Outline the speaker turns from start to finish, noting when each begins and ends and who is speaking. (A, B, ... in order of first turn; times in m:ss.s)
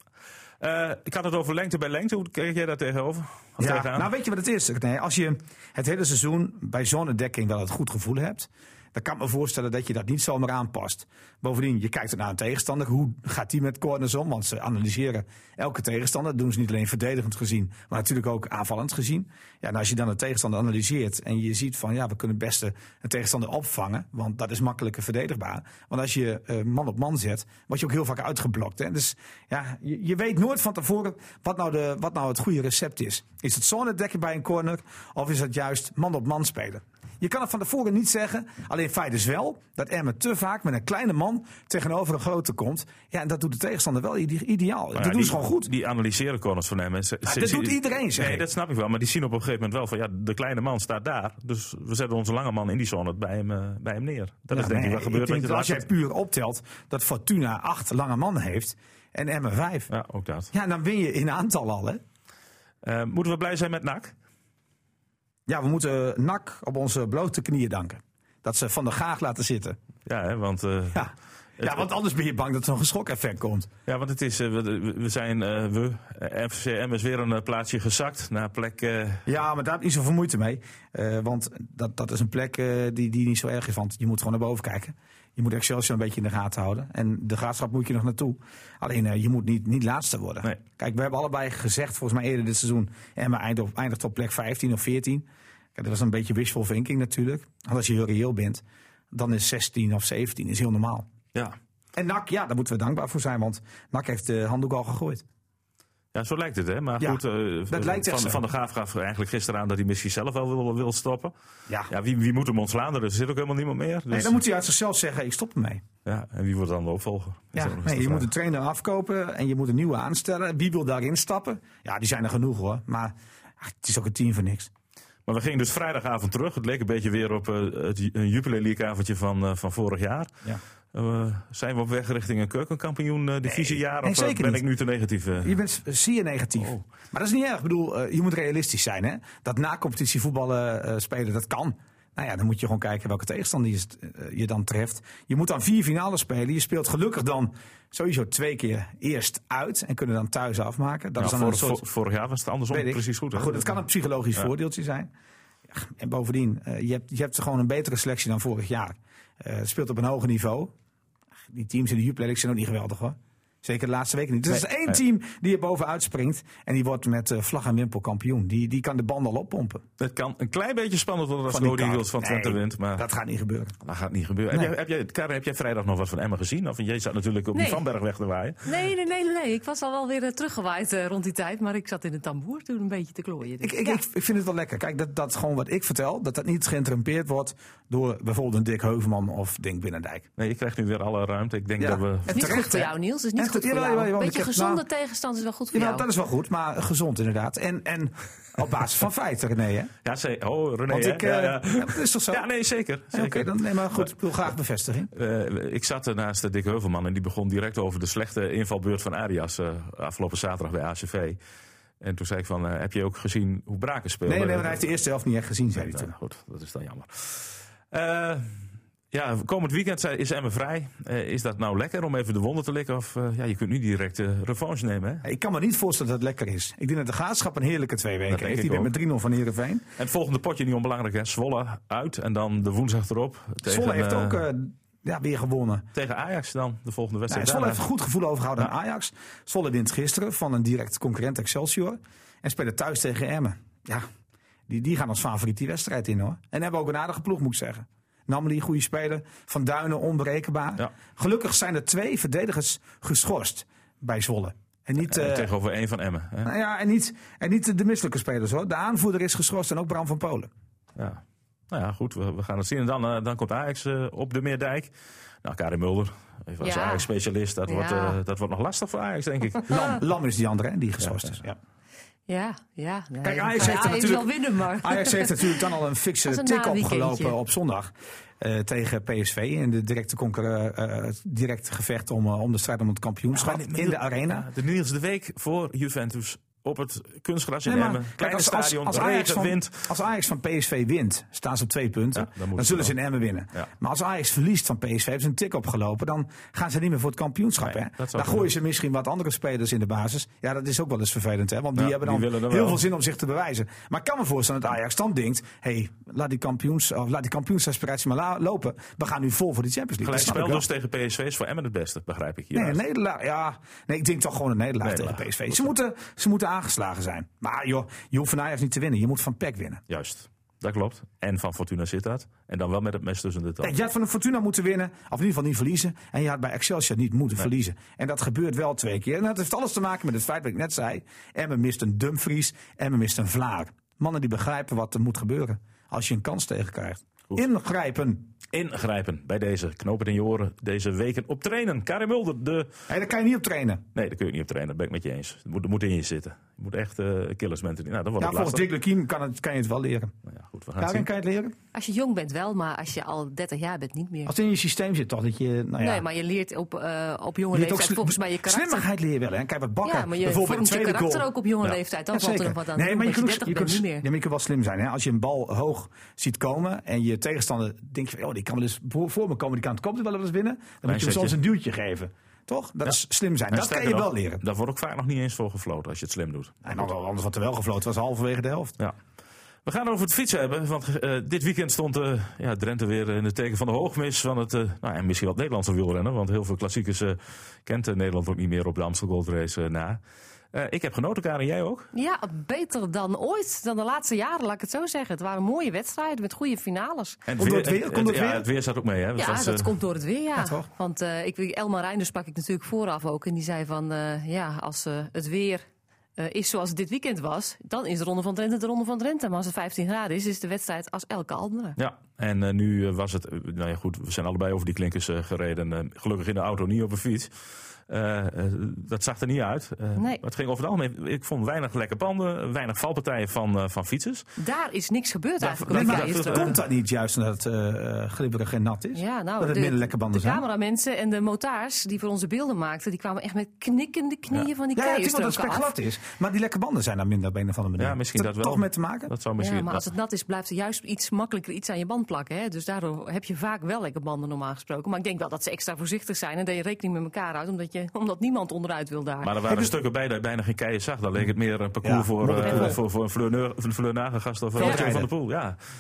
0:00.6-0:04.1 A
0:03.6-0:45.7 B
0:44.9-0:55.9 A
0:47.2-0:48.4 B
0:54.5-0:59.9 B
0:59.9-1:00.5 A
1:00.5-1:02.0 B
1:02.8-1:04.1 A
1:05.5-1:09.8 B
1:10.0-1:11.8 A
1:10.9-1:13.7 B
1:13.8-1:19.2 A
1:19.2-1:41.1 B
1:41.9-1:45.2 B
1:46.1-1:51.3 A
1:47.0-1:48.4 B
1:51.9-1:54.4 A
1:54.1-1:55.8 B
1:56.0-1:58.3 A
1:57.5-2:04.7 B
2:05.2-2:10.3 A
2:10.9-2:15.6 A
2:13.4-2:14.6 B
2:15.4-2:31.8 B
2:31.2-2:33.8 A
2:32.7-2:35.1 B
2:35.7-2:40.7 B
2:41.5-2:49.8 B
2:50.0-2:53.0 A
2:51.5-2:53.8 B
2:53.8-2:58.7 A
2:57.5-2:57.8 C
2:58.6-3:04.0 C
3:03.6-3:10.3 B
3:10.4-3:12.8 A
3:11.8-3:14.8 B
3:12.3-3:16.1 C
3:15.7-3:19.9 B
3:20.0-3:24.1 A
3:20.9-3:22.4 B
3:23.1-3:25.1 B
3:25.1-3:31.4 A
3:32.0-3:34.8 A
3:34.2-3:36.1 B
3:35.7-3:38.6 A
3:39.1-3:45.2 A
3:45.2-3:49.8 B
3:48.3-3:48.9 A
3:50.0-3:54.4 A
3:53.6-3:55.9 B
3:55.9-3:57.8 A
3:57.3-4:04.0 B
4:04.7-4:15.5 B
4:15.0-4:16.5 A
4:16.4-4:20.5 B
4:21.0-4:24.9 A
4:25.4-4:29.8 A
4:26.6-4:27.1 C
4:27.6-4:28.2 C
4:29.7-4:31.6 B
4:31.0-4:31.3 A
4:32.3-4:35.7 C
4:33.2-4:44.5 B
4:36.2-4:37.4 C
4:43.3-4:49.9 A
4:47.6-5:10.6 B
4:52.1-4:52.9 A
4:57.6-4:58.5 A
5:01.8-5:02.8 A
5:10.0-5:12.8 A
5:12.5-5:19.8 B
5:14.8-5:15.7 A
5:19.9-5:23.7 A
5:23.6-5:38.3 B
5:38.5-5:42.7 A
5:42.9-5:43.8 B
5:43.9-5:48.6 A
5:48.2-5:50.1 B
5:50.2-5:51.1 A
5:50.8-5:51.6 B
5:51.7-5:54.3 C
5:54.2-5:56.0 B
5:55.8-5:58.8 C
5:57.5-6:01.3 B
5:59.8-6:04.0 C
6:02.1-6:14.4 B
6:10.8-6:11.4 A
6:13.5-6:16.8 A
6:16.6-6:18.7 B
6:19.6-6:30.0 A
6:30.5-6:31.9 A
6:31.9-6:37.2 C
6:37.3-6:39.7 A
6:37.4-6:38.5 B
6:39.2-6:45.6 C
6:40.4-6:40.7 B
6:46.2-6:51.8 C
6:51.8-6:57.3 A
6:57.9-7:04.2 A
7:00.0-7:00.2 C
7:04.4-7:06.6 C
7:05.4-7:06.6 A
7:05.7-7:10.4 B
7:08.9-7:15.7 C
7:14.7-7:19.1 B
7:17.8-7:19.9 A
7:19.4-7:29.3 C
7:29.2-7:35.6 A
7:31.8-7:32.8 B
7:32.4-7:32.8 C
7:34.6-7:35.1 B
7:34.6-7:34.8 C